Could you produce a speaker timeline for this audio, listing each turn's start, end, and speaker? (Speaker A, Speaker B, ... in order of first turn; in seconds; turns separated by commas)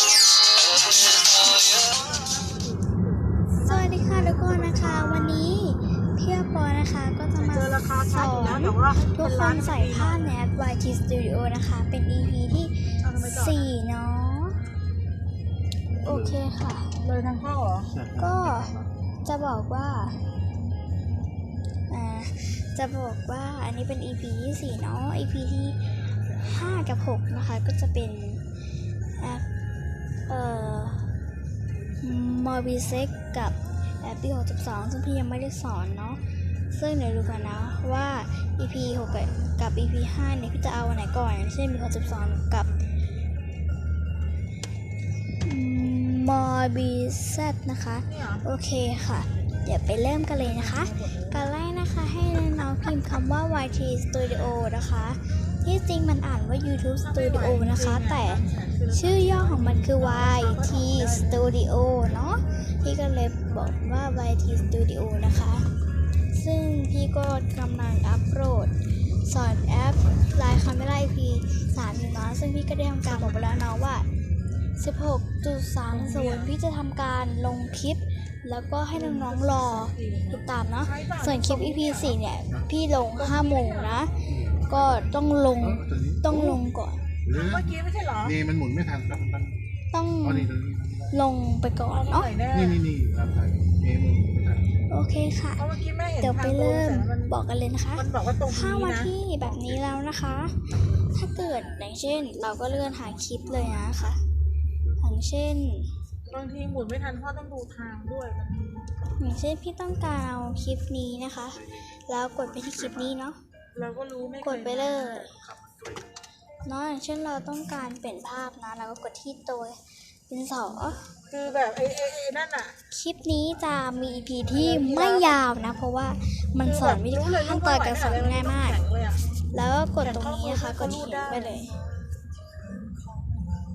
Speaker A: 1.1-5.5, Speaker B: 3.6-14.6, Speaker A: 7.4-10.3, Speaker A: 13.0-13.7, Speaker C: 15.9-16.4, Speaker B: 16.0-17.0, Speaker A: 17.0-17.9, Speaker C: 17.9-18.9, Speaker B: 18.1-20.2, Speaker B: 21.9-25.8, Speaker B: 26.4-28.4, Speaker B: 29.2-29.5, Speaker B: 30.3-31.1, Speaker B: 32.0-42.8, Speaker B: 45.4-65.7, Speaker A: 48.0-48.5, Speaker A: 50.4-51.5, Speaker A: 57.0-61.5, Speaker B: 66.3-74.1, Speaker A: 73.1-73.5, Speaker B: 74.8-84.2, Speaker A: 75.9-76.5, Speaker A: 78.9-82.2, Speaker A: 83.2-84.1, Speaker C: 84.2-85.1, Speaker B: 84.7-87.0, Speaker C: 85.6-86.6, Speaker C: 87.2-87.6, Speaker A: 87.3-88.4, Speaker C: 88.2-89.6, Speaker B: 89.9-90.5, Speaker C: 90.2-91.1, Speaker B: 91.1-92.3, Speaker A: 91.9-92.8, Speaker C: 92.5-94.7, Speaker B: 94.9-95.7, Speaker A: 95.6-97.3, Speaker B: 96.2-104.2, Speaker A: 98.0-99.1, Speaker B: 105.0-105.9, Speaker A: 106.3-108.9, Speaker B: 109.2-113.4, Speaker C: 112.4-113.1, Speaker A: 113.7-115.3, Speaker B: 114.4-115.4, Speaker C: 115.5-116.1, Speaker B: 116.6-121.1, Speaker A: 121.3-122.8, Speaker B: 122.9-128.8, Speaker A: 124.5-125.4, Speaker A: 126.6-129.2, Speaker B: 129.5-131.7, Speaker A: 130.0-131.7